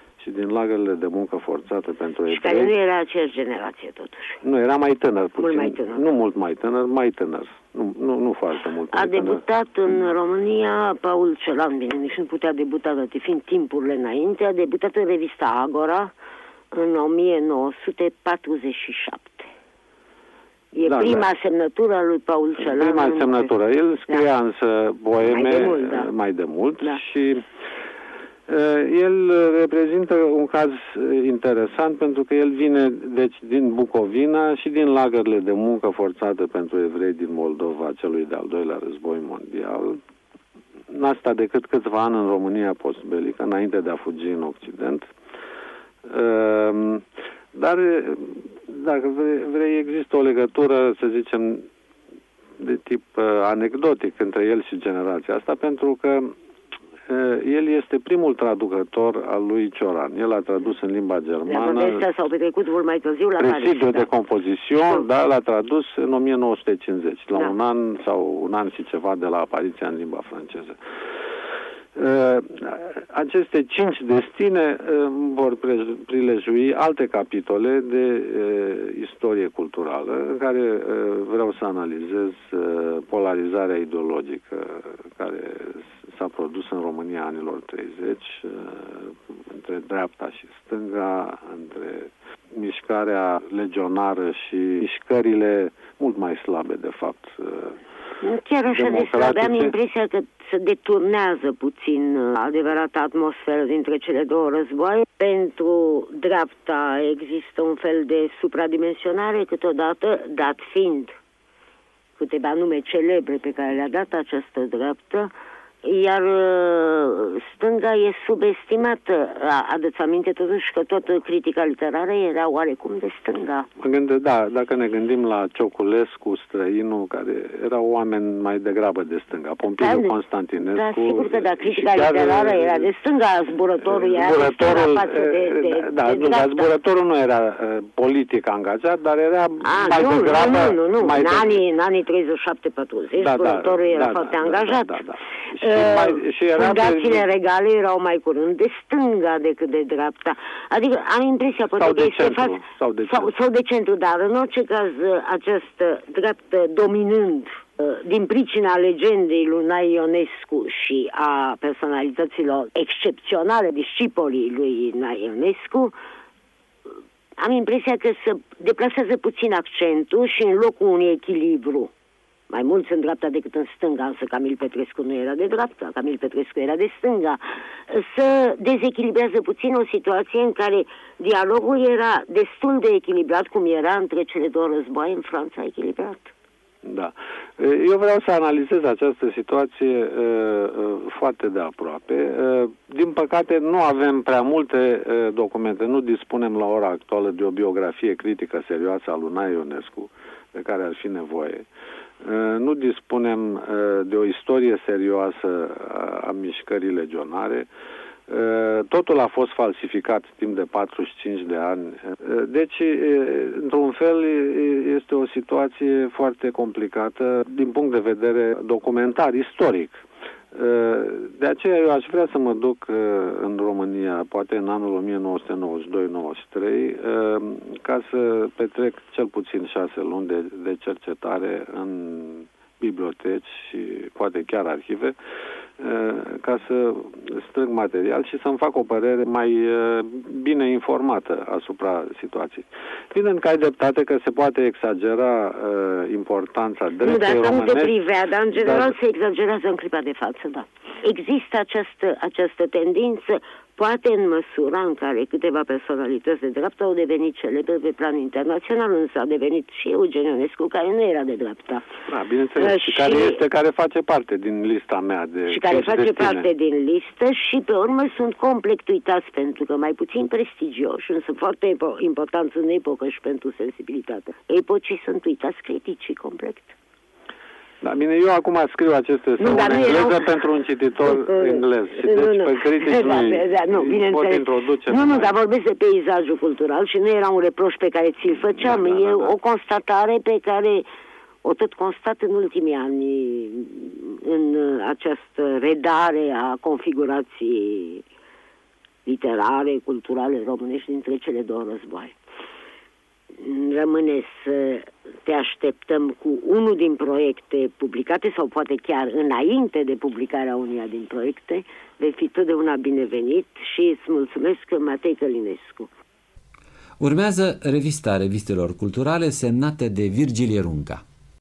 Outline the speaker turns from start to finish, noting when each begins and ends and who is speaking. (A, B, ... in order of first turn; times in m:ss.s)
0:00.2-0:02.7 A
0:02.3-0:04.4 B
0:04.4-0:09.4 A
0:05.4-0:06.0 B
0:08.9-0:16.1 B
0:16.7-0:19.5 B
0:20.7-0:23.5 B
0:20.8-0:21.3 A
0:22.6-0:27.4 A
0:25.2-0:26.1 B
0:28.5-0:40.0 A
0:40.9-0:45.1 A
0:46.0-0:51.7 A
0:52.6-0:56.3 A
0:57.1-1:02.1 A
1:01.5-1:04.1 B
1:03.4-1:10.8 A
1:12.0-1:37.8 A
1:38.2-1:51.2 B
1:38.7-1:39.8 A
1:52.2-1:55.3 B
1:55.8-2:03.7 B
2:03.8-2:12.9 A
2:09.7-2:10.2 B
2:10.8-2:16.7 B
2:13.8-2:21.6 A
2:19.6-2:25.0 B
2:23.2-2:27.2 A
2:25.6-2:46.0 B
2:31.8-2:33.3 A
2:47.4-2:51.9 B
2:52.5-3:06.3 B
3:06.8-3:21.7 A
3:22.2-3:27.7 A
3:28.3-3:40.0 A
3:40.5-3:55.2 A
3:55.8-4:08.0 A
4:07.0-4:21.9 B
4:08.6-4:08.9 A
4:22.1-4:26.5 A
4:22.6-4:23.4 B
4:25.5-4:36.7 B
4:37.8-4:45.3 A
4:39.4-4:40.4 B
4:41.0-4:50.9 B
4:48.6-4:49.4 A
4:51.4-4:58.0 B
4:59.0-5:02.2 B
5:03.4-5:15.9 B
5:17.0-5:21.0 C